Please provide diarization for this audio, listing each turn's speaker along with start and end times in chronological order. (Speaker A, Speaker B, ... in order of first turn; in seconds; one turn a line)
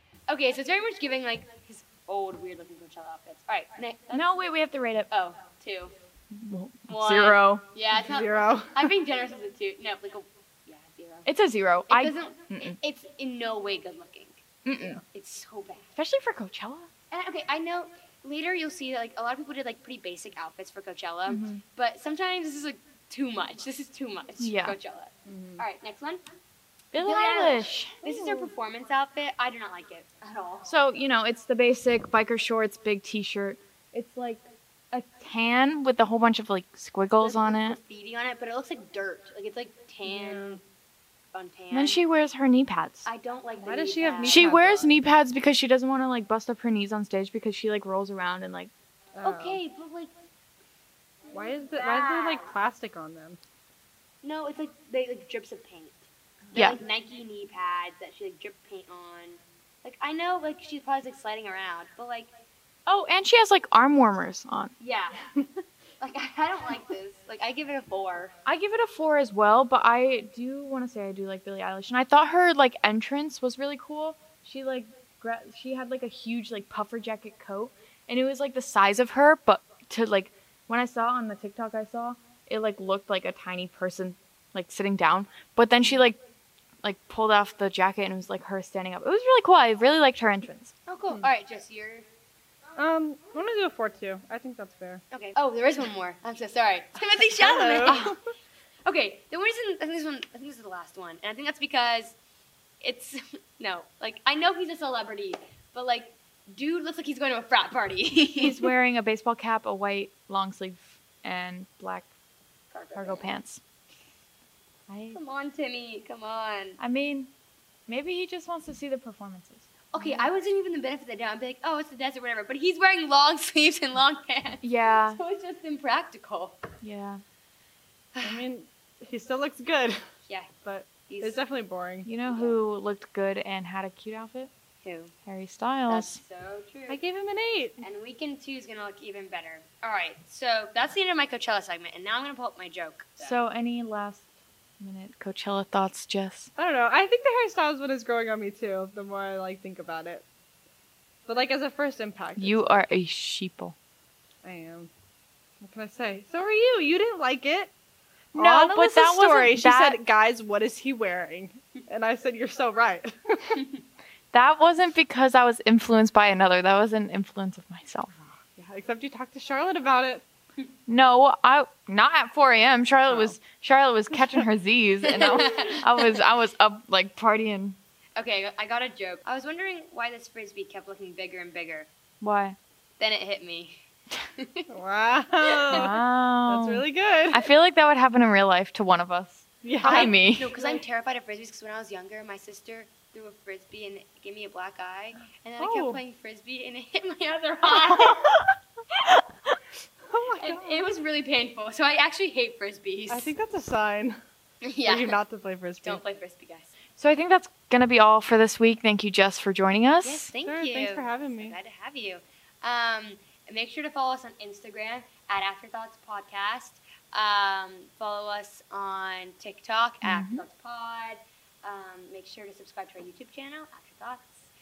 Speaker A: 0.3-4.3
Speaker B: 4.1-5.1
Speaker A: 5.1-5.9
Speaker B: 6.3-7.7
Speaker A: 6.9-11.3
Speaker C: 7.9-8.8
Speaker B: 11.2-12.8
Speaker A: 11.9-14.4
Speaker B: 14.6-15.0
Speaker A: 14.9-15.9
Speaker B: 15.9-16.9
Speaker A: 17.1-26.2
Speaker B: 21.3-21.6
Speaker B: 24.4-24.8
Speaker C: 25.2-25.6
Speaker B: 26.9-28.5
Speaker A: 26.9-30.7
Speaker B: 30.6-34.4
Speaker B: 34.9-37.8
Speaker A: 37.2-40.6
Speaker C: 40.0-40.6
Speaker A: 41.3-42.0
Speaker B: 41.7-43.1
Speaker A: 43.0-44.4
Speaker C: 43.6-45.0
Speaker B: 44.2-48.7
Speaker C: 49.1-49.6
Speaker A: 49.2-50.1
Speaker C: 51.3-53.4
Speaker A: 51.4-52.5
Speaker A: 54.2-62.3
Speaker B: 62.9-64.7
Speaker A: 64.8-68.3
Speaker B: 68.5-86.2
Speaker B: 86.8-90.7
Speaker A: 90.9-92.1
Speaker C: 92.8-95.0
Speaker A: 95.1-98.1
Speaker C: 97.4-98.2
Speaker B: 97.8-98.1
Speaker A: 98.8-102.1
Speaker A: 102.8-108.7
Speaker B: 108.4-112.0
Speaker A: 112.7-113.4
Speaker B: 112.9-113.6
Speaker B: 114.9-115.2
Speaker A: 115.1-116.8
Speaker B: 116.8-117.3
Speaker B: 117.9-120.3
Speaker A: 119.9-126.7
Speaker B: 124.6-125.2
Speaker B: 126.8-127.2
Speaker A: 128.1-128.4
Speaker C: 128.2-130.0
Speaker C: 130.6-132.1
Speaker A: 131.1-131.4
Speaker B: 132.1-134.5
Speaker A: 132.3-132.6
Speaker A: 134.8-135.1
Speaker B: 135.2-136.2
Speaker A: 135.9-137.0
Speaker C: 136.9-137.8
Speaker A: 137.8-143.4
Speaker B: 143.2-144.2
Speaker B: 144.8-146.5
Speaker C: 146.6-150.2
Speaker C: 151.2-152.9
Speaker B: 152.4-153.7
Speaker C: 154.4-154.9
Speaker C: 155.6-157.7
Speaker C: 158.3-163.6
Speaker B: 158.3-160.0
Speaker B: 164.3-168.2
Speaker C: 168.6-170.2
Speaker B: 170.9-177.8
Speaker C: 173.1-173.3
Speaker A: 175.0-176.2
Speaker A: 178.2-181.9
Speaker B: 182.2-182.6
Speaker A: 183.0-183.8
Speaker A: 184.4-184.7
Speaker C: 184.7-187.5
Speaker A: 185.4-185.9
Speaker B: 185.7-190.6
Speaker C: 189.6-190.8
Speaker A: 189.8-198.4
Speaker B: 195.6-196.0
Speaker C: 200.1-200.9
Speaker A: 200.4-203.3
Speaker C: 203.1-204.2
Speaker A: 204.6-205.2
Speaker C: 204.8-206.0
Speaker A: 205.8-206.8
Speaker B: 206.9-210.3
Speaker A: 210.0-224.5
Speaker C: 210.4-211.6
Speaker B: 220.0-220.4